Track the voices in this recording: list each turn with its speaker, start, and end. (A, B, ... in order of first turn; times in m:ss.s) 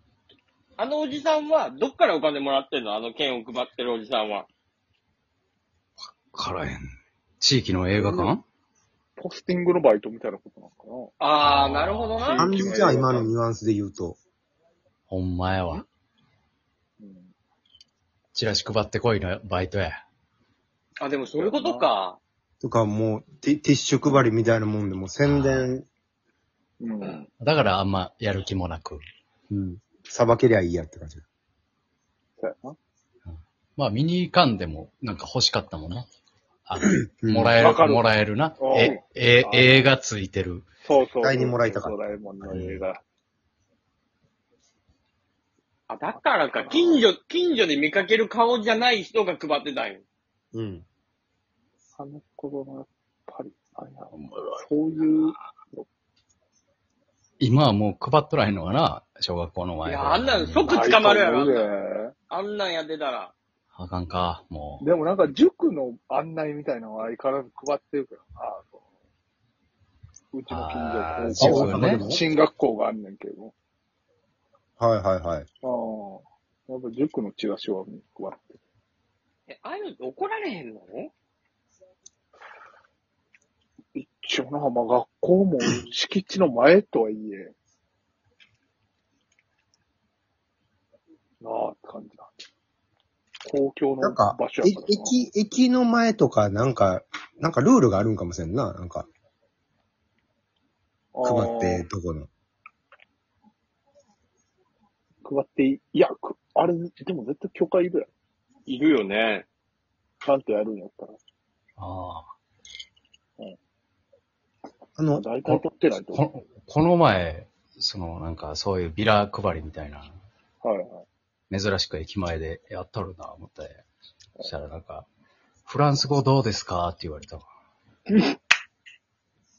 0:00.8-0:04.5 A
0:06.1-0:06.9 B
0:07.4-0:08.4 B
0:07.9-0:08.3 C
0:09.2-0:11.1 C
0:11.2-0:13.1 A
0:11.4-0:12.4 B
0:12.3-0:14.2 D
0:12.3-0:13.3 C
0:15.1-0:15.8 B
0:17.0-0:17.3 C
0:18.3-0:20.0 B
0:21.0-0:22.2 A
0:21.2-0:21.9 C
0:22.6-0:25.8 D
0:25.2-0:25.7 B
0:26.8-0:27.3 C
0:27.4-0:29.0 B
0:29.5-0:31.2 D
0:32.4-0:32.8 C
0:33.3-0:36.1 B
0:36.6-0:40.6 B
0:37.2-0:37.6 D
0:37.6-0:38.1 C
0:38.6-0:39.9 C
0:40.8-0:43.0 C
0:41.2-0:42.8 D
0:45.9-0:50.0 A
0:46.4-0:47.0 C
0:50.5-0:50.8 D
0:52.0-0:55.9 C
0:57.4-1:00.9 B
0:59.8-1:01.7 A
1:00.7-1:02.1 C
1:02.3-1:03.3 A
1:03.7-1:04.8 B
1:04.8-1:08.8 C
1:10.3-1:13.5 C
1:10.5-1:12.0 B
1:11.4-1:12.2 D
1:14.8-1:15.5 D
1:15.6-1:18.6 C
1:19.5-1:21.1 A
1:23.9-1:27.5 C
1:31.4-1:32.3 C
1:33.4-1:35.2 C
1:34.0-1:39.1 D
1:41.1-1:41.8 C
1:41.2-1:42.3 D
1:45.2-1:48.1 C
1:48.7-1:49.4 A
1:50.2-1:51.2 C
1:51.8-1:52.2 B
1:55.0-1:55.3 D
1:55.2-1:56.2 C
1:56.1-2:00.1 B
2:00.6-2:01.0 C
2:01.5-2:03.8 B
2:04.4-2:05.0 B
2:05.7-2:07.4 B
2:08.1-2:08.4 C